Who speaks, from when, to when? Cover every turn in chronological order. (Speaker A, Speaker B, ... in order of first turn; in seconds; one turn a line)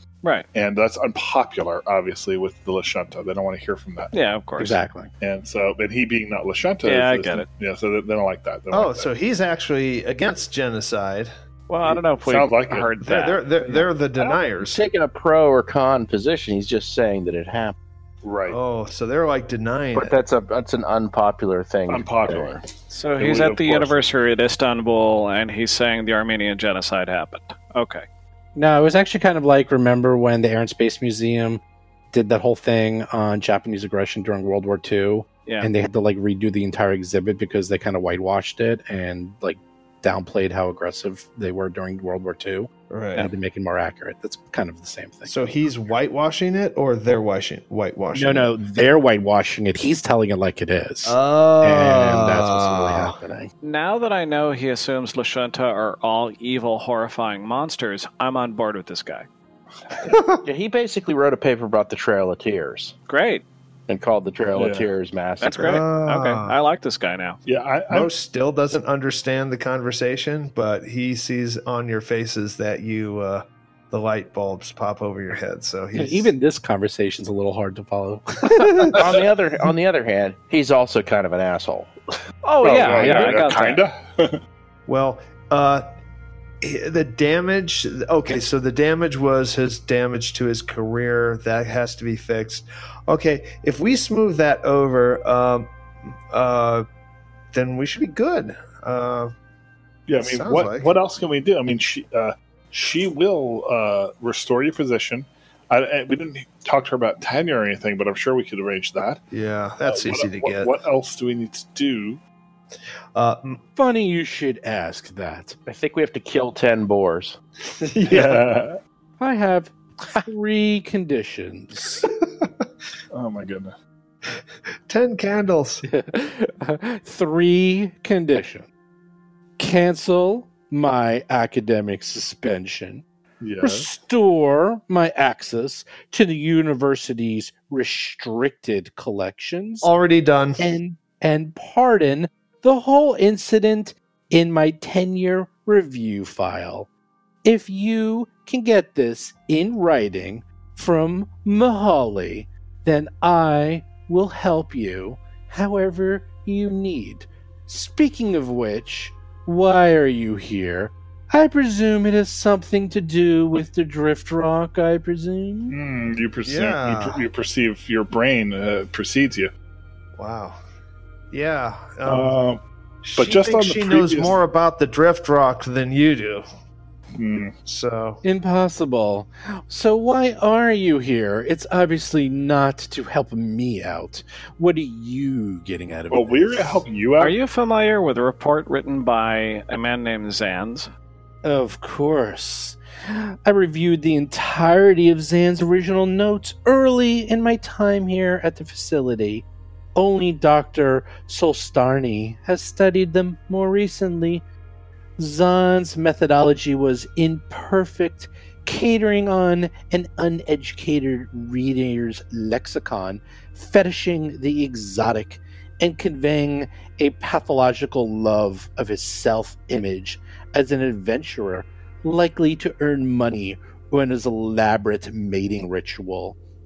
Speaker A: 0.5-4.1
Speaker B: 4.1-4.8
Speaker C: 4.6-5.1
Speaker A: 5.2-9.1
Speaker B: 6.8-7.5
Speaker D: 8.7-12.0
Speaker B: 11.7-13.4
Speaker A: 12.2-13.0
Speaker D: 13.0-14.8
Speaker A: 13.6-14.4
Speaker E: 14.7-17.8
Speaker A: 18.2-18.6
Speaker D: 18.5-20.2
Speaker E: 19.9-22.6
Speaker A: 21.9-22.6
Speaker B: 22.9-28.0
Speaker A: 23.2-24.0
Speaker C: 28.6-31.6
Speaker C: 32.1-45.4
Speaker D: 42.9-43.3
Speaker D: 45.3-48.5
Speaker C: 48.1-53.5
Speaker D: 51.0-53.2
Speaker B: 53.6-59.3
Speaker D: 60.0-60.4
Speaker E: 60.4-62.9
Speaker B: 63.1-63.4
Speaker E: 63.9-65.8
Speaker A: 64.5-64.9
Speaker B: 65.4-67.4
Speaker D: 65.5-66.5
Speaker A: 67.5-68.1
Speaker D: 67.9-76.3
Speaker C: 75.9-78.8
Speaker D: 78.6-78.9
Speaker E: 78.8-81.9
Speaker B: 82.4-83.8
Speaker A: 82.6-84.4
Speaker D: 84.9-85.8
Speaker D: 86.6-96.9
Speaker D: 97.5-99.3
Speaker A: 100.1-109.2
Speaker D: 100.2-100.9
Speaker D: 109.3-110.7
Speaker A: 109.8-112.2
Speaker D: 113.1-113.6
Speaker C: 113.8-115.6
Speaker E: 115.7-117.4
Speaker D: 117.8-118.5
Speaker A: 118.0-118.8
Speaker C: 119.2-122.0
Speaker D: 122.0-122.5
Speaker A: 123.1-123.7
Speaker D: 124.8-125.8
Speaker C: 125.8-128.7
Speaker C: 129.6-133.0
Speaker A: 133.4-133.9
Speaker C: 133.6-139.9
Speaker D: 139.8-140.7
Speaker C: 140.6-146.9
Speaker C: 147.4-165.7
Speaker A: 165.7-169.5
Speaker D: 166.4-167.3
Speaker D: 170.2-170.6
Speaker D: 171.3-172.4
Speaker A: 172.1-172.6
Speaker D: 173.0-176.4
Speaker A: 173.2-174.4
Speaker A: 177.2-177.5
Speaker D: 177.6-178.2
Speaker C: 178.2-186.8
Speaker A: 186.1-187.3
Speaker B: 187.2-190.9
Speaker C: 191.4-199.4
Speaker C: 199.9-204.4
Speaker C: 205.2-226.4